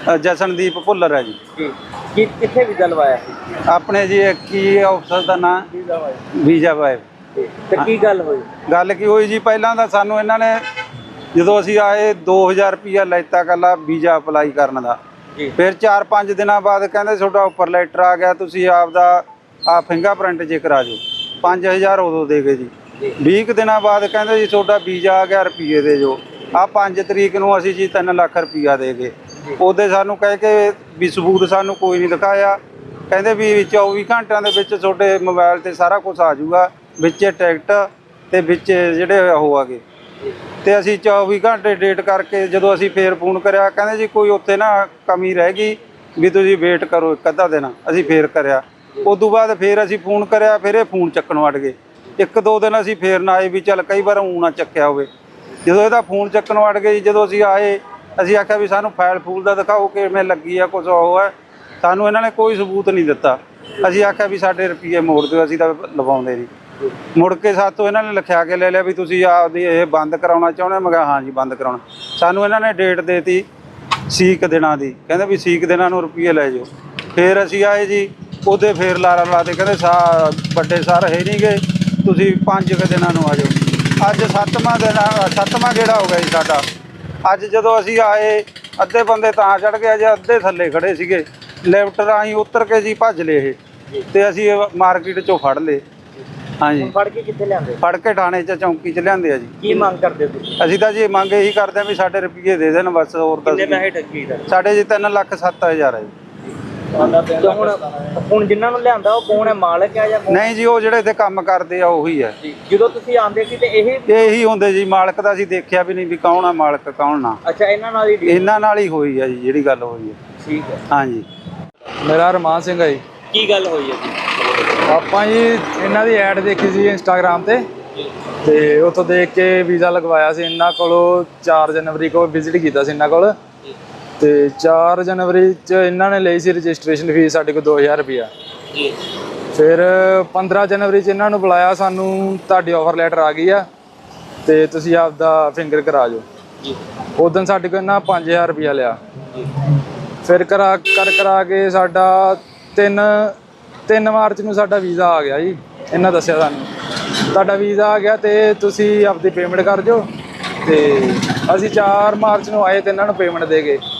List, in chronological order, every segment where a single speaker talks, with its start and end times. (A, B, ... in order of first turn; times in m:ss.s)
0:00.1-0:01.4 A
0:01.6-0:03.6 B
0:03.7-0:05.7 A
0:05.7-0:06.2 B
0:06.4-0:07.0 A
0:07.4-0:08.5 B
0:08.7-0:10.6 A
0:11.4-0:15.0 A
0:15.6-0:22.7 A
0:23.2-0:32.6 A
0:33.1-0:39.8 A
0:40.6-0:55.1 A
0:55.6-1:01.3 A
1:01.8-1:06.5 A
1:07.2-1:13.4 A
1:14.1-1:26.6 A
1:27.3-1:33.6 A
1:34.1-1:35.8 A
1:36.6-1:36.9 A
1:36.8-1:37.8 B
1:37.8-1:39.8 A
1:39.6-1:40.6 B
1:40.6-1:43.9 A
1:43.4-1:44.5 B
1:44.5-1:46.1 A
1:46.9-1:50.5 B
1:50.3-1:52.3 A
1:52.4-1:54.5 B
1:54.1-1:57.4 A
1:57.4-1:58.5 B
1:58.3-2:00.2 A
2:00.4-2:00.8 B
2:00.9-2:01.2 A
2:02.0-2:03.0 C
2:03.3-2:04.7 B
2:04.9-2:07.6 C
2:08.4-2:13.3 C
2:14.2-2:18.3 C
2:19.5-2:23.7 C
2:24.4-2:26.2 C
2:27.2-2:29.0 C
2:30.2-2:33.3 C
2:33.9-2:36.7 C
2:37.3-2:40.0 C
2:40.6-2:43.8 C